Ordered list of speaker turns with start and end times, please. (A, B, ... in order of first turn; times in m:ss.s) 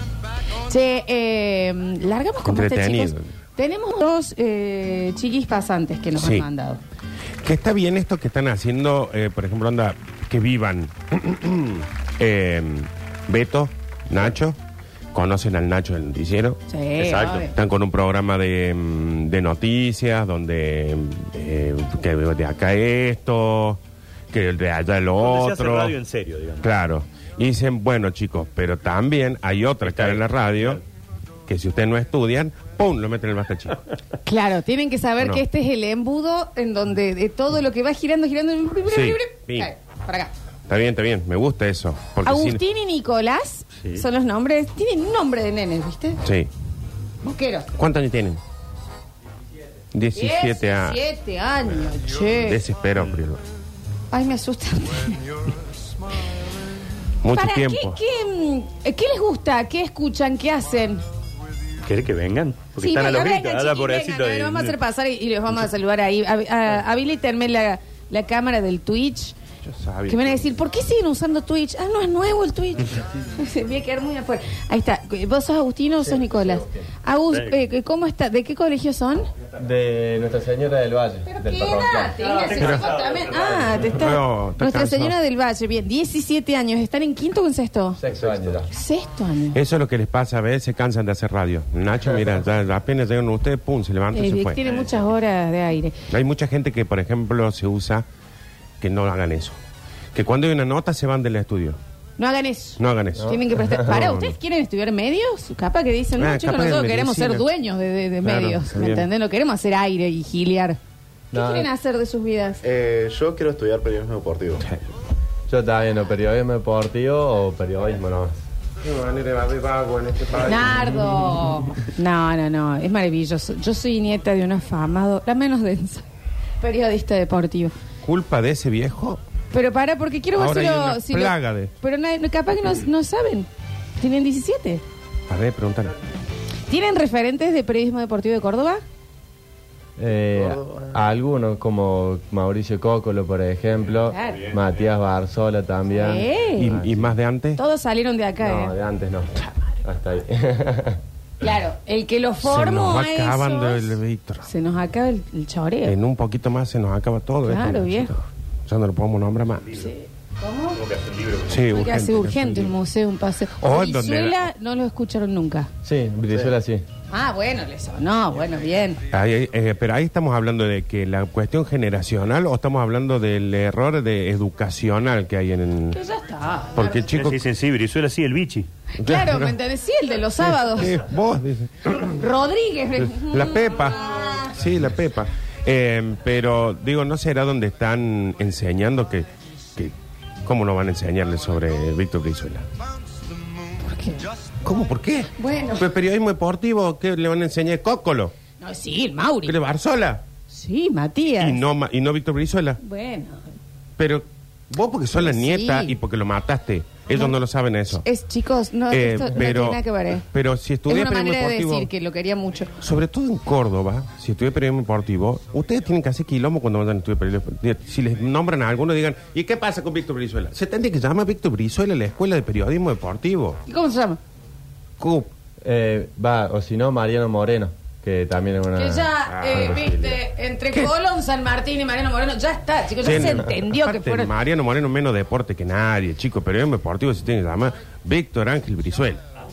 0:00.6-0:06.8 A
0:02.4-0:03.3 B
0:06.2-0:06.5 B
0:07.4-0:14.6 B
0:15.1-0:16.6 B
0:16.7-0:17.5 A
0:17.0-0:17.5 C
0:17.4-0:23.8 B
0:24.3-0:26.0 B
0:25.2-0:26.7 C
0:26.6-0:30.8 B
0:29.8-0:30.8 C
0:31.5-0:33.8 B
0:34.2-0:40.3 A
0:38.9-0:39.7 B
0:40.7-0:42.6 B
0:42.2-0:46.2 A
0:46.2-0:46.5 B
0:47.2-0:47.7 A
0:47.8-0:48.4 B
0:49.9-0:51.0 B
0:50.2-0:52.6 A
0:52.3-0:53.4 B
0:54.1-0:55.3 A
0:57.2-0:58.0 B
0:57.3-1:01.0 A
1:01.8-1:04.8 C
1:02.8-1:09.4 A
1:09.6-1:10.4 B
1:10.1-1:19.3 A
1:16.0-1:16.9 D
1:17.3-1:17.6 C
1:19.6-1:22.2 D
1:21.3-1:28.0 A
1:22.2-1:23.9 C
1:22.5-1:22.8 B
1:23.8-1:25.2 B
1:28.0-1:28.7 D
1:28.1-1:28.6 E
1:28.7-1:29.6 A
1:29.5-1:34.6 B
1:34.1-1:36.0 A
1:36.1-1:38.1 B
1:38.8-1:39.6 B
1:40.1-1:41.8 B
1:42.2-1:50.8 A
1:42.8-1:44.3 B
1:43.3-1:44.1 D
1:46.2-1:47.5 B
1:48.2-1:49.1 B
1:51.3-1:51.7 D
1:51.3-1:52.6 A
1:52.6-1:54.7 E
1:55.5-1:58.4 D
1:58.8-2:01.1 B
2:00.4-2:06.1 A
2:06.6-2:07.7 A
2:08.0-2:09.2 B
2:09.5-2:14.8 A
2:10.4-2:11.7 B
2:15.3-2:15.9 B
2:16.7-2:18.8 A
2:20.0-2:27.1 D
2:20.3-2:21.0 E
2:23.9-2:24.8 C
2:24.1-2:24.5 A
2:25.9-2:26.8 A
2:26.6-2:27.6 B
2:27.6-2:28.8 A
2:28.4-2:31.0 D
2:29.4-2:29.8 A
2:31.4-2:36.0 A
2:32.4-2:34.5 B
2:35.8-2:39.8 B
2:37.4-2:38.2 A
2:39.7-2:40.8 A
2:40.8-2:41.7 C
2:41.5-2:42.7 B
2:41.7-2:45.7 A
2:43.6-2:44.4 B
2:45.8-2:46.8 D
2:47.1-2:49.0 A
2:49.1-2:56.0 B
2:55.9-2:57.1 A
2:56.8-2:57.4 B
2:57.1-2:58.7 C
2:58.9-3:01.0 A
2:59.0-2:59.6 B
3:00.5-3:02.2 B
3:02.1-3:04.5 A
3:03.0-3:09.9 B
3:10.4-3:12.6 B
3:13.8-3:14.2 A
3:14.6-3:18.3 B
3:15.4-3:15.9 A
3:18.6-3:19.6 A
3:19.4-3:20.2 B
3:20.5-3:21.6 A
3:21.4-3:22.8 B
3:22.8-3:23.4 A
3:24.0-3:28.0 B
3:25.2-3:26.0 A
3:27.9-3:30.2 A
3:28.9-3:31.9 B
3:30.9-3:32.7 A
3:32.8-3:43.6 B
3:43.6-3:44.2 A
3:45.0-3:45.3 B
3:45.6-3:50.0 D
3:48.8-3:54.3 A
3:49.3-3:50.1 B
3:53.0-3:59.2 B